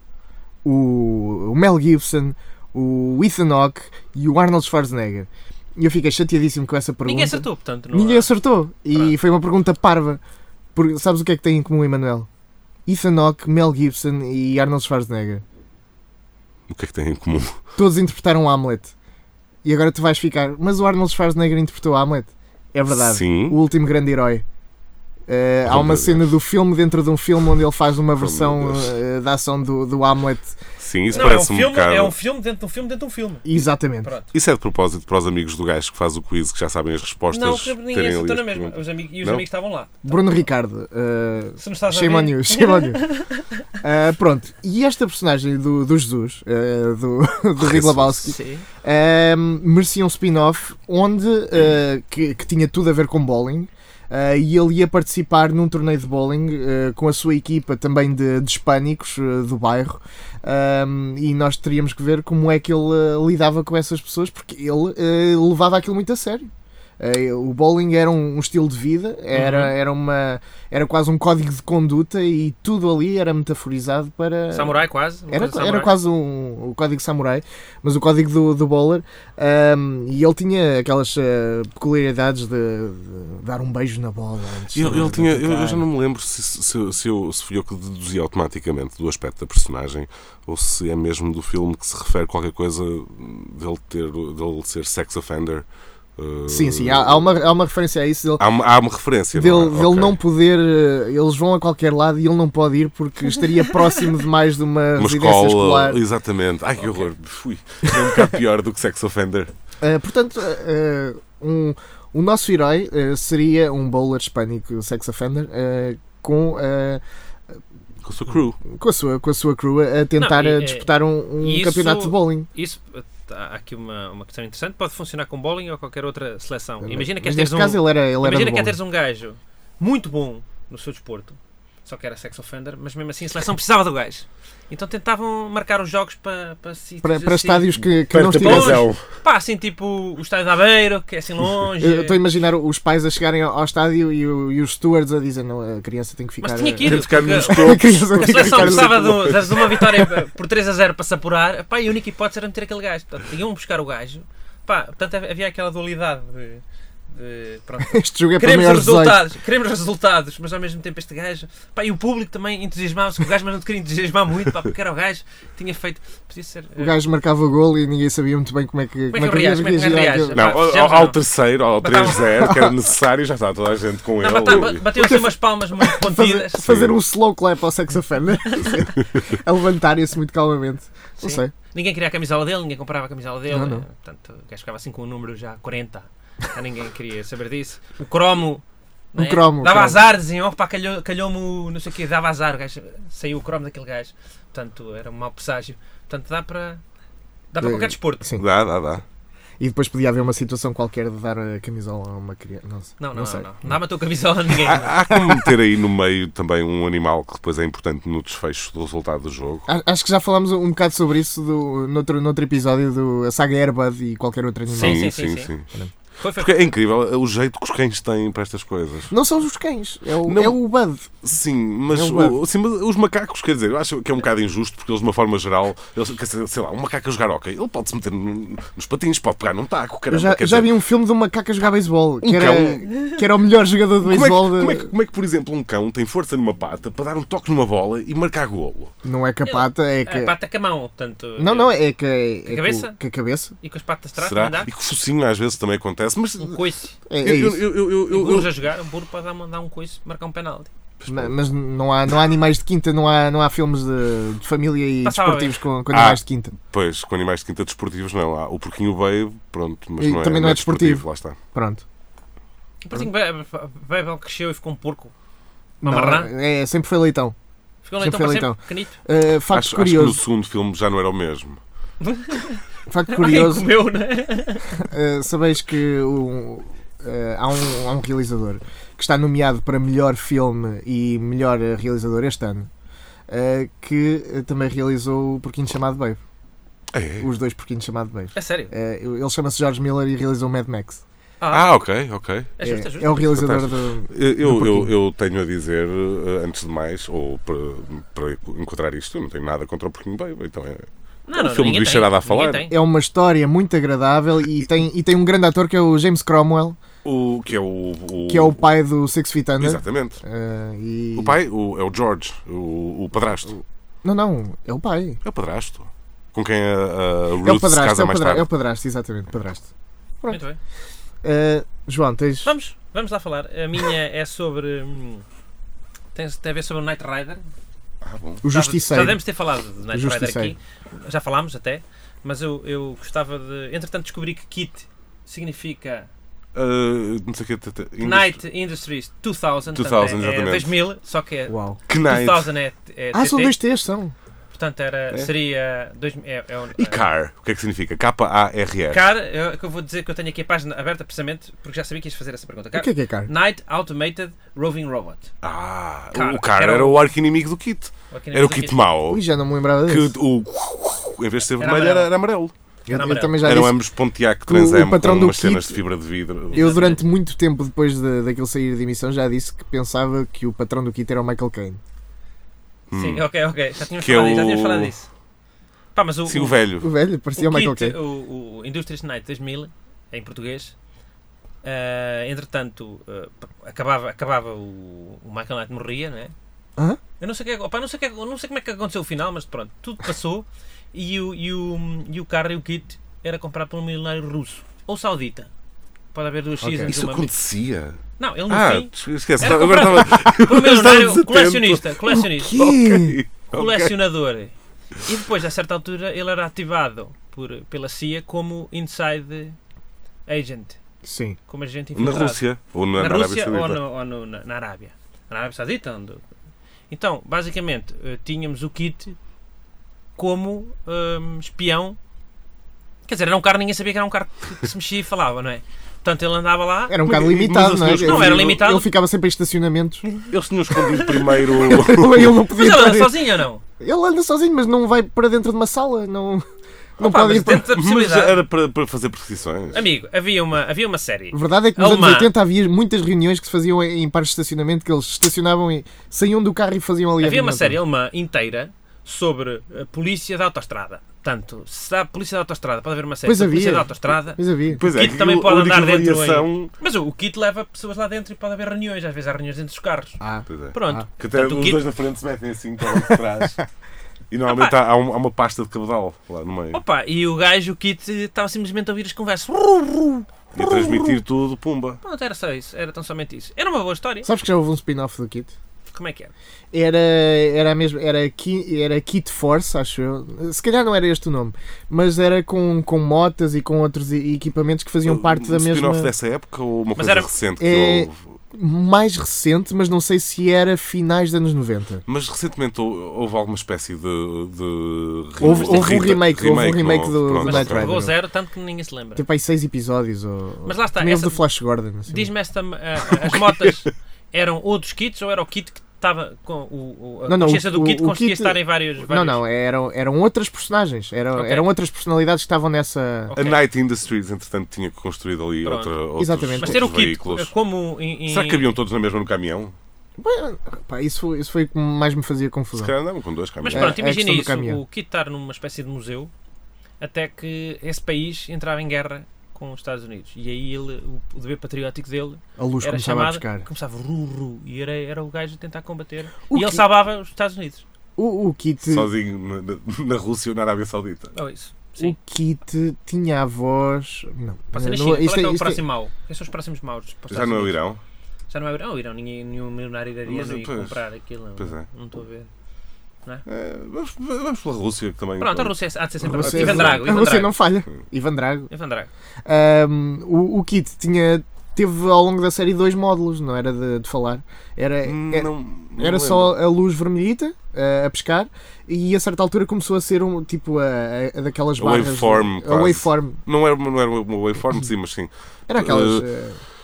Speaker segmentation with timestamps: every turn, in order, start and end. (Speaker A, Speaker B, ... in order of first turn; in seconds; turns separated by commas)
Speaker A: 0.6-10.2, Speaker B: 7.0-8.3, Speaker A: 10.7-12.3, Speaker A: 12.8-15.4, Speaker C: 16.7-17.5, Speaker A: 17.8-18.9, Speaker A: 19.6-24.4, Speaker C: 22.9-23.6, Speaker A: 25.3-30.6, Speaker C: 25.6-26.3, Speaker C: 28.1-28.9, Speaker C: 30.8-32.1, Speaker B: 31.1-34.3, Speaker A: 33.4-34.1, Speaker C: 34.3-39.4, Speaker B: 37.3-40.3, Speaker A: 40.0-43.0, Speaker B: 41.6-43.6, Speaker A: 43.8-85.9, Speaker C: 47.6-48.3, Speaker B: 48.2-48.6, Speaker B: 69.3-69.7, Speaker B: 74.5-75.9, Speaker C: 84.7-95.7, Speaker C: 96.2-97.2, Speaker A: 96.5-98.4, Speaker C: 98.4-100.2, Speaker A: 99.3-106.0, Speaker C: 105.0-109.5, Speaker A: 109.8-117.0, Speaker C: 118.0-118.6, Speaker A: 118.6-122.5, Speaker B: 120.2-137.8, Speaker A: 126.8-128.8, Speaker A: 137.0-138.9, Speaker C: 138.1-139.0, Speaker B: 138.4-142.2, Speaker A: 141.8-149.3, Speaker B: 146.4-166.9, Speaker C: 146.8-149.6, Speaker A: 157.9-159.2, Speaker A: 166.8-170.4, Speaker B: 169.1-171.2, Speaker C: 170.3-174.9, Speaker B: 171.8-172.3, Speaker A: 172.4-172.7, Speaker B: 174.2-176.6, Speaker A: 174.5-181.5, Speaker C: 176.6-176.9, Speaker B: 181.2-196.8, Speaker A: 183.5-183.8, Speaker A: 189.2-190.0, Speaker B: 197.5-198.3, Speaker A: 197.6-198.5, Speaker C: 198.4-199.0, Speaker A: 199.6-203.7, Speaker B: 203.0-204.9, Speaker C: 204.6-209.7, Speaker A: 205.1-205.5, Speaker A: 209.7-215.1, Speaker C: 214.7-215.7, Speaker B: 214.8-215.5, Speaker B: 216.2-216.7, Speaker C: 216.4-219.1, Speaker A: 219.1-221.2, Speaker C: 220.2-220.6, Speaker C: 221.2-230.7, Speaker A: 221.9-222.4, Speaker A: 230.1-234.9, Speaker C: 232.2-232.8, Speaker C: 234.0-238.9, Speaker A: 239.0-240.3, Speaker B: 239.4-241.8, Speaker A: 241.4-243.5, Speaker B: 242.4-243.0, Speaker B: 243.6-244.7, Speaker C: 244.2-246.6, Speaker B: 246.4-247.0, Speaker A: 247.1-247.7, Speaker C: 247.2-248.5, Speaker B: 248.1-250.7, Speaker C: 251.0-251.4, Speaker A: 251.1-256.5, Speaker B: 255.0-255.7, Speaker C: 255.9-261.4, Speaker A: 260.0-261.8, Speaker B: 262.8-265.1, Speaker A: 265.8-267.3, Speaker B: 265.8-266.3, Speaker B: 267.8-268.9, Speaker A: 268.0-270.2, Speaker C: 269.5-271.6, Speaker B: 272.0-274.8, Speaker A: 272.9-273.7, Speaker A: 274.8-282.7, Speaker A: 283.3-286.2, Speaker C: 286.9-287.3, Speaker A: 287.2-291.0, Speaker B: 288.3-288.7, Speaker B: 291.4-291.7, Speaker C: 291.5-292.5, Speaker B: 292.6-293.2, Speaker A: 292.6-294.9, Speaker C: 293.1-302.7, Speaker B: 301.3-302.7, Speaker A: 302.7-306.8, Speaker C: 307.0-308.6, Speaker A: 308.3-311.4, Speaker C: 309.6-310.2, Speaker C: 311.1-313.5, Speaker A: 313.5-315.2, Speaker C: 315.2-318.5, Speaker A: 317.4-319.7, Speaker B: 320.3-320.6, Speaker A: 321.2-322.5, Speaker B: 322.4-325.2, Speaker B: 326.1-327.4, Speaker C: 328.0-328.4, Speaker A: 328.4-329.2, Speaker B: 328.5-336.1, Speaker A: 329.9-330.5, Speaker C: 336.5-338.4, Speaker B: 338.0-343.6, Speaker C: 339.7-340.7, Speaker A: 341.5-341.8, Speaker C: 341.9-342.5, Speaker A: 343.1-344.1, Speaker B: 344.5-347.1, Speaker C: 346.8-349.0, Speaker B: 348.9-355.3, Speaker A: 352.7-353.3, Speaker C: 355.4-359.2, Speaker B: 356.1-357.0, Speaker B: 358.1-358.8, Speaker A: 359.1-360.1, Speaker C: 359.9-362.5, Speaker B: 361.6-362.1, Speaker A: 362.9-363.8, Speaker B: 362.9-363.4, Speaker C: 363.4-366.9, Speaker A: 364.4-365.8, Speaker B: 366.5-367.0, Speaker A: 366.5-371.8, Speaker C: 372.9-373.2, Speaker B: 372.9-375.1, Speaker C: 374.0-374.9, Speaker B: 375.9-376.6, Speaker C: 376.3-376.9, Speaker A: 376.8-378.0, Speaker B: 377.4-380.7, Speaker B: 381.6-386.3, Speaker B: 387.2-395.5, Speaker B: 396.1-397.3, Speaker A: 396.6-396.9, Speaker C: 396.9-401.9, Speaker B: 398.2-409.6, Speaker A: 402.1-403.2, Speaker C: 402.9-403.9, Speaker B: 410.2-410.8, Speaker A: 411.0-411.4, Speaker B: 411.5-412.4, Speaker C: 411.9-413.8, Speaker B: 413.0-416.2, Speaker B: 416.9-419.2, Speaker B: 420.2-422.0, Speaker B: 423.1-427.0, Speaker A: 426.9-430.0, Speaker C: 427.0-428.6, Speaker B: 428.0-428.9, Speaker B: 430.1-433.6, Speaker C: 430.3-432.4, Speaker A: 431.6-436.4, Speaker A: 437.0-437.7, Speaker B: 437.0-438.4, Speaker C: 437.3-439.8, Speaker B: 439.7-442.3, Speaker A: 441.3-447.8, Speaker B: 447.2-460.2, Speaker A: 453.2-454.8, Speaker C: 454.7-456.7, Speaker A: 460.2-461.0, Speaker C: 460.5-463.6, Speaker B: 460.7-461.8, Speaker C: 464.3-466.8, Speaker B: 464.5-464.7, Speaker B: 466.7-471.1, Speaker C: 470.5-472.0, Speaker B: 472.0-474.3, Speaker A: 474.2-475.5, Speaker B: 475.9-476.3, Speaker A: 476.7-486.1, Speaker C: 485.0-488.2, Speaker B: 487.0-487.3, Speaker A: 487.6-492.0, Speaker C: 492.1-497.9, Speaker B: 495.4-496.1, Speaker A: 495.4-498.1, Speaker B: 497.4-499.2, Speaker A: 499.1-502.3, Speaker B: 500.6-501.4, Speaker B: 502.1-509.4, Speaker A: 507.3-513.3, Speaker B: 511.3-511.7, Speaker B: 513.3-513.6, Speaker C: 513.4-517.5, Speaker B: 515.6-515.9, Speaker A: 516.2-516.9, Speaker B: 516.6-518.7, Speaker C: 518.3-519.7, Speaker A: 520.2-522.9, Speaker C: 522.7-524.0, Speaker B: 523.6-526.3, Speaker A: 523.7-524.8, Speaker B: 527.0-537.8, Speaker A: 532.6-533.6, Speaker A: 536.5-536.8, Speaker A: 538.2-539.1, Speaker C: 538.8-541.3, Speaker B: 541.3-542.2, Speaker A: 542.0-545.8, Speaker B: 544.7-547.8, Speaker C: 547.3-548.0, Speaker B: 548.5-552.5, Speaker C: 550.2-551.0, Speaker C: 551.6-551.8, Speaker C: 553.5-557.3, Speaker B: 555.4-557.5, Speaker A: 556.2-558.7, Speaker B: 558.7-559.1, Speaker A: 559.4-573.4, Speaker C: 565.0-566.5, Speaker C: 571.8-576.3, Speaker A: 575.7-576.6